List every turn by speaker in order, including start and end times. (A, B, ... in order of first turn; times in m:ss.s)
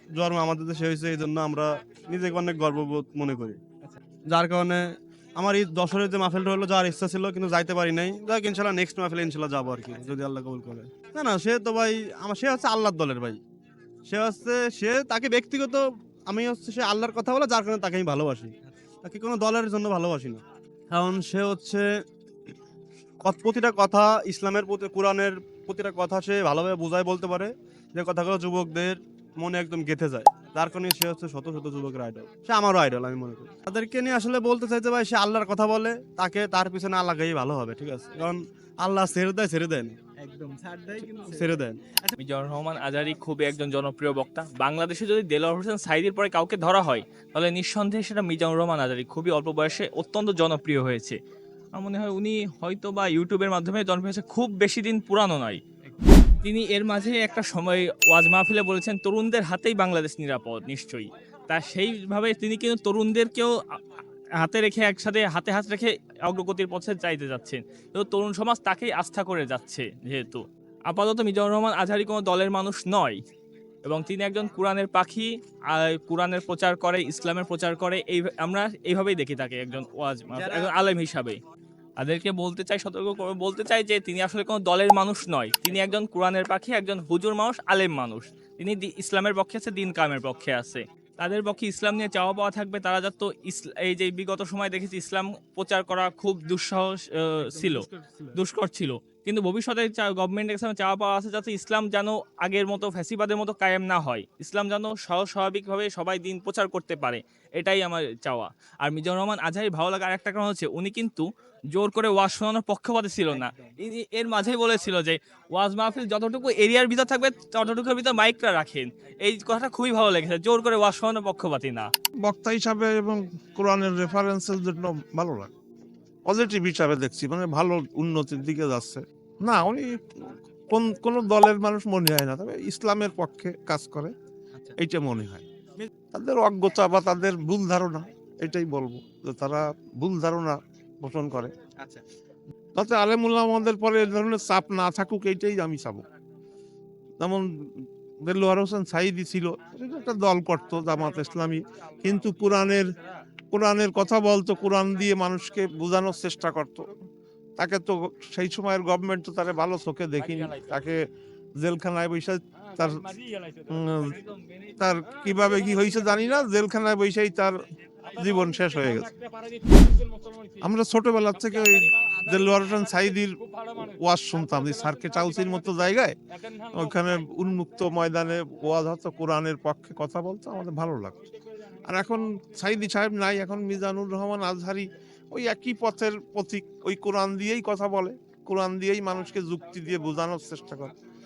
0:00.2-0:03.6 A
0:04.3-0:04.9 A
0:05.4-0:13.4 A
0:14.1-0:21.9 A
0:23.2-0:40.0 A
0:40.2-0:42.2 B
0:41.1-0:41.8 A
0:42.2-0:51.2 C
0:51.8-0:55.6 C
0:56.4-1:03.8 C
1:04.4-1:13.2 C
1:13.9-1:21.4 C
1:20.4-1:20.7 B
1:22.0-2:01.9 C
1:53.3-1:53.8 B
2:02.2-2:05.5 D
2:06.3-2:14.1 D
2:14.8-2:15.4 D
2:16.1-2:21.5 D
2:22.8-2:26.0 D
2:27.2-2:32.9 D
2:33.5-2:36.9 D
2:37.6-2:41.1 D
2:41.6-2:47.6 D
2:48.1-2:49.2 D
2:50.6-3:01.2 D
3:01.9-3:10.9 D